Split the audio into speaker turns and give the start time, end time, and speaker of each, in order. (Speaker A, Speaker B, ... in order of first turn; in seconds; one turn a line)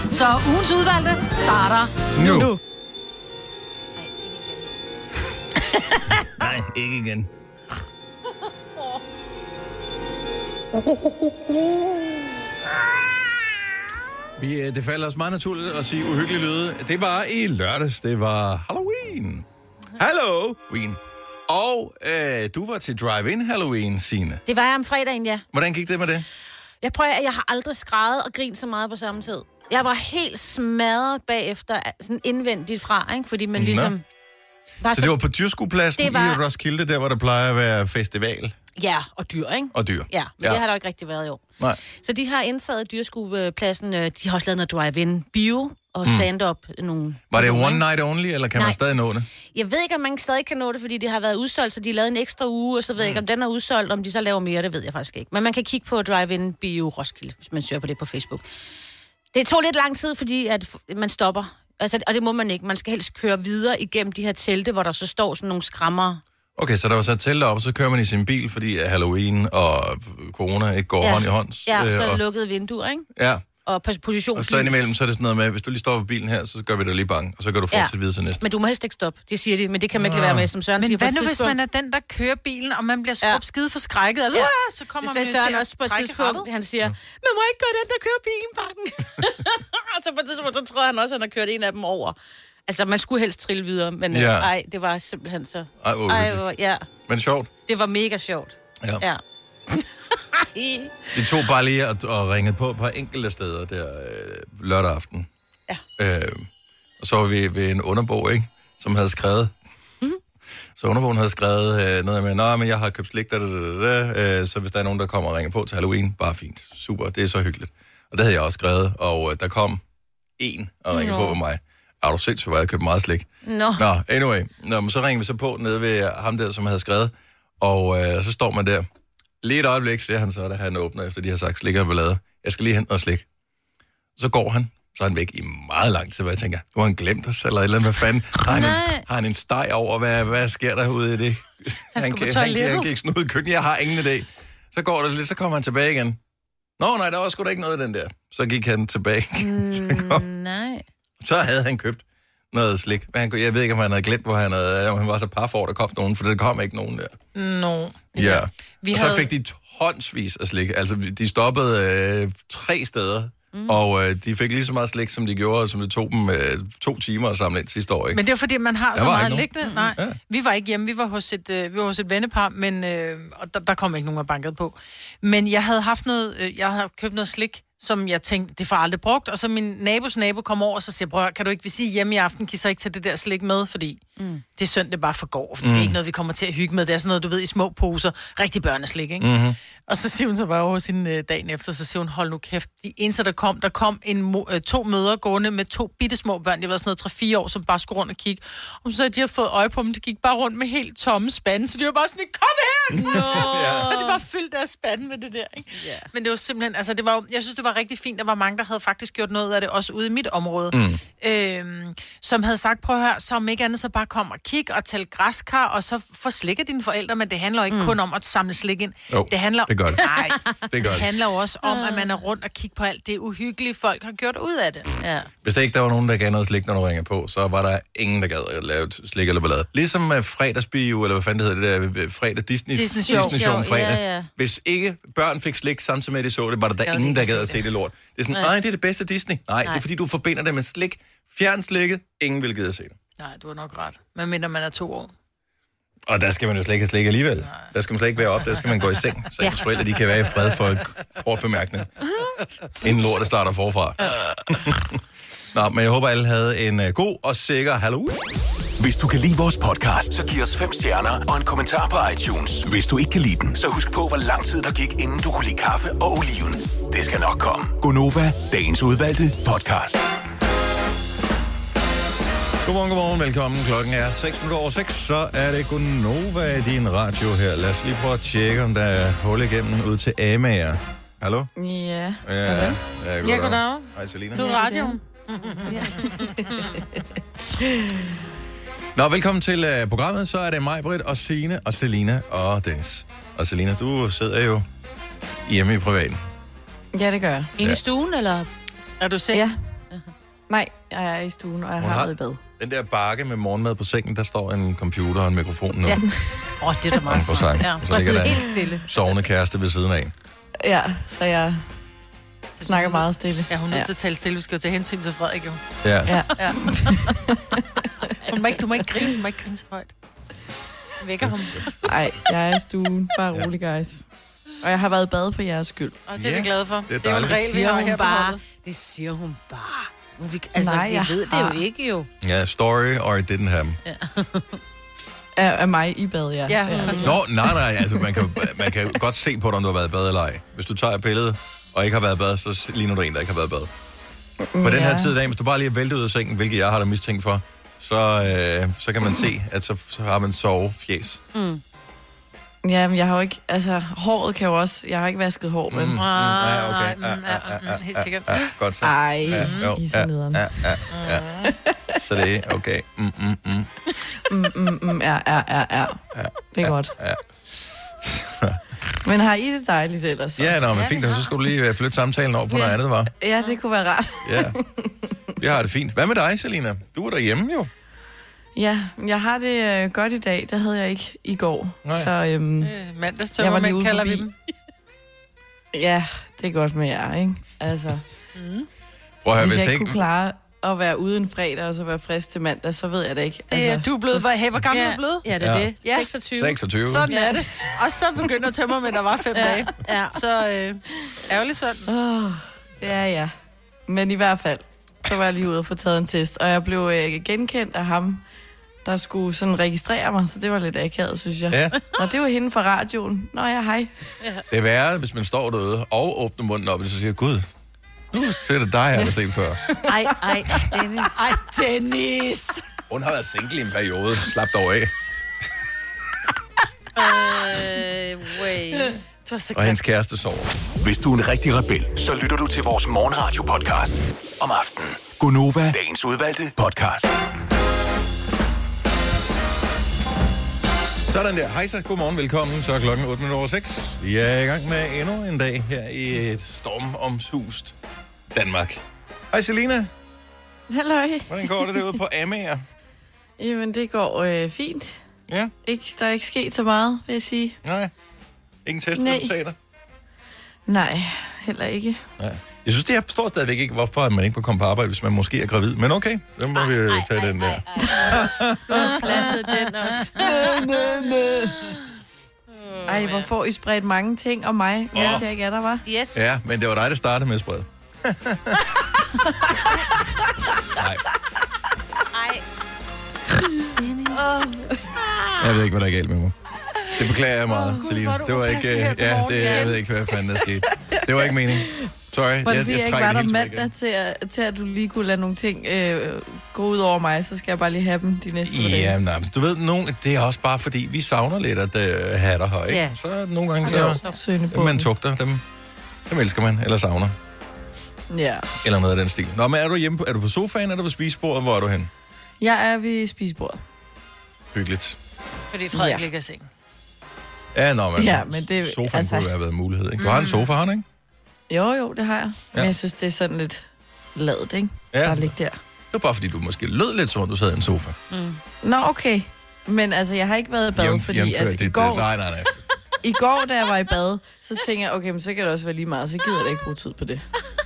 Speaker A: 0.1-1.9
Speaker B: 2.1-2.5
Speaker C: 2.2-2.6
Speaker D: 4.0-4.7
Speaker B: 6.4-7.3
Speaker B: 10.7-12.3
Speaker B: 14.4-19.4
Speaker B: 20.0-24.4
Speaker D: 24.4-25.4
Speaker B: 25.5-26.2
Speaker D: 26.8-34.0
Speaker B: 33.5-33.9
Speaker D: 34.8-35.2
Speaker B: 34.9-38.5
Speaker D: 36.0-36.4
Speaker D: 38.8-47.8
Speaker B: 39.7-40.6
Speaker B: 47.3-49.3
Speaker D: 49.5-58.4
Speaker D: 59.3-66.2
Speaker B: 66.5-72.2
Speaker D: 71.0-73.1
Speaker B: 73.2-73.4
Speaker D: 73.6-74.9
Speaker B: 74.3-78.4
Speaker D: 77.7-81.5
Speaker B: 79.9-80.5
Speaker A: 80.8-86.5
Speaker D: 84.3-92.2
Speaker D: 92.7-96.8
Speaker B: 94.1-94.5
Speaker B: 95.8-96.5
Speaker B: 97.1-97.5
Speaker D: 97.7-101.1
Speaker B: 101.1-105.3
Speaker B: 106.0-106.5
Speaker B: 107.0-109.5
Speaker B: 110.8-119.8
Speaker B: 120.4-128.8
Speaker D: 120.9-121.4
Speaker D: 123.4-123.8
Speaker B: 129.4-133.2
Speaker B: 134.2-146.2
Speaker D: 138.4-139.0
Speaker A: 142.0-142.8
Speaker D: 142.4-142.6
Speaker B: 146.8-150.2
Speaker D: 149.3-150.8
Speaker B: 151.2-157.1
Speaker A: 157.3-159.3
Speaker B: 158.1-168.2
Speaker D: 163.5-163.8
Speaker A: 168.1-184.0
Speaker B: 168.9-170.2
Speaker D: 169.6-169.9
Speaker D: 184.2-184.4
Speaker A: 184.6-189.3
Speaker B: 185.6-186.0
Speaker B: 189.2-189.6
Speaker A: 189.9-224.9
Speaker B: 202.9-204.0
Speaker D: 203.0-204.2
Speaker D: 205.7-206.1
Speaker B: 210.7-211.0
Speaker D: 217.7-217.9
Speaker B: 219.1-220.0
Speaker D: 220.0-220.5
Speaker B: 220.7-221.1
Speaker D: 221.6-222.1
Speaker D: 225.0-225.3
Speaker B: 225.4-242.9
Speaker A: 232.7-233.4
Speaker D: 233.1-234.3
Speaker A: 236.9-237.6
Speaker A: 243.2-245.1
Speaker B: 246.1-252.0
Speaker D: 249.4-249.6
Speaker B: 252.8-255.0
Speaker B: 255.5-258.2
Speaker E: 258.8-270.1
Speaker B: 272.6-281.5
Speaker C: 281.6-282.7
Speaker B: 282.2-284.4
Speaker A: 283.2-286.2
Speaker C: 284.3-285.0
Speaker C: 285.6-287.0
Speaker C: 287.6-288.2
Speaker B: 288.9-294.6
Speaker B: 295.4-296.2
Speaker C: 296.9-297.5
Speaker D: 297.6-298.5
Speaker A: 299.0-299.5
Speaker C: 299.3-299.6
Speaker C: 300.5-302.4
Speaker B: 301.8-306.1
Speaker D: 306.6-308.9
Speaker B: 307.0-310.1
Speaker C: 310.6-311.6
Speaker A: 312.6-315.8
Speaker C: 312.7-313.9
Speaker B: 315.8-316.3
Speaker C: 316.0-317.9
Speaker A: 316.4-316.6
Speaker A: 318.3-319.9
Speaker D: 321.0-321.8
Speaker B: 321.2-321.7
Speaker C: 321.8-324.1
Speaker C: 324.6-326.0
Speaker A: 326.1-328.4
Speaker B: 326.1-327.4
Speaker D: 327.2-332.1
Speaker C: 330.6-331.6
Speaker B: 332.2-333.8
Speaker D: 333.9-334.6
Speaker C: 335.4-338.2
Speaker A: 336.5-337.2
Speaker D: 336.6-337.2
Speaker B: 337.0-343.7
Speaker C: 344.4-345.1
Speaker B: 344.6-351.2
Speaker D: 351.3-351.6
Speaker C: 352.6-356.0
Speaker B: 355.7-361.3
Speaker A: 355.9-358.5
Speaker C: 358.8-360.8
Speaker A: 359.3-359.7
Speaker A: 360.9-361.5
Speaker C: 361.4-361.9
Speaker B: 361.9-363.7
Speaker C: 364.3-366.0
Speaker B: 366.1-368.6
Speaker C: 366.5-366.9
Speaker C: 369.0-370.6
Speaker B: 370.4-373.1
Speaker D: 370.7-371.3
Speaker C: 372.5-375.2
Speaker B: 374.2-374.6
Speaker B: 375.4-377.7
Speaker C: 378.5-382.7
Speaker B: 381.8-382.1
Speaker A: 382.6-384.3
Speaker C: 383.4-384.2
Speaker C: 385.7-388.0
Speaker A: 388.3-388.7
Speaker B: 389.2-390.1
Speaker C: 389.4-394.3
Speaker A: 393.5-395.3
Speaker D: 394.7-396.6
Speaker B: 395.3-395.8
Speaker A: 395.8-396.1
Speaker B: 396.3-397.1
Speaker A: 396.9-401.9
Speaker D: 397.1-397.4
Speaker C: 397.1-397.4
Speaker D: 399.4-400.2
Speaker C: 401.9-403.3
Speaker C: 403.9-408.2
Speaker C: 408.8-413.9
Speaker B: 411.5-411.8
Speaker B: 414.5-417.5
Speaker B: 418.1-419.6
Speaker C: 419.8-420.7
Speaker D: 419.9-421.2
Speaker A: 421.1-422.6
Speaker B: 422.9-424.9
Speaker D: 427.0-428.9
Speaker A: 428.7-429.8
Speaker B: 429.5-430.5
Speaker E: 430.8-437.2
Speaker B: 441.1-447.7
Speaker B: 448.3-449.9
Speaker C: 450.7-451.9
Speaker B: 451.3-452.6
Speaker C: 453.4-455.0
Speaker B: 455.3-455.5
Speaker C: 455.6-457.6
Speaker B: 457.6-457.9
Speaker B: 458.6-459.6
Speaker C: 458.9-459.3
Speaker C: 460.7-462.0
Speaker B: 462.2-469.2
Speaker D: 466.5-470.7
Speaker C: 467.8-468.1
Speaker C: 468.8-469.7
Speaker B: 470.1-471.8
Speaker D: 472.6-473.3
Speaker C: 472.9-475.8
Speaker B: 474.9-475.2
Speaker D: 475.8-476.2
Speaker B: 476.1-478.7
Speaker B: 480.8-481.0
Speaker D: 482.1-482.4
Speaker C: 483.8-484.9
Speaker B: 485.4-486.3
Speaker B: 486.9-493.7
Speaker A: 487.5-489.8
Speaker C: 492.4-498.9
Speaker B: 498.4-504.0
Speaker D: 502.7-503.0
Speaker C: 503.6-504.9
Speaker D: 503.6-504.2
Speaker B: 504.5-505.4
Speaker B: 506.1-507.1
Speaker C: 508.1-508.5
Speaker B: 508.6-511.9
Speaker C: 512.4-513.6
Speaker B: 514.5-515.0
Speaker A: 515.5-516.5
Speaker C: 515.7-516.1
Speaker B: 517.5-520.8
Speaker C: 518.0-519.3
Speaker A: 520.0-520.5
Speaker C: 521.5-525.6
Speaker B: 524.9-525.3
Speaker B: 525.9-528.0
Speaker D: 528.1-528.4
Speaker C: 528.6-532.1
Speaker B: 530.7-532.6
Speaker C: 533.0-537.2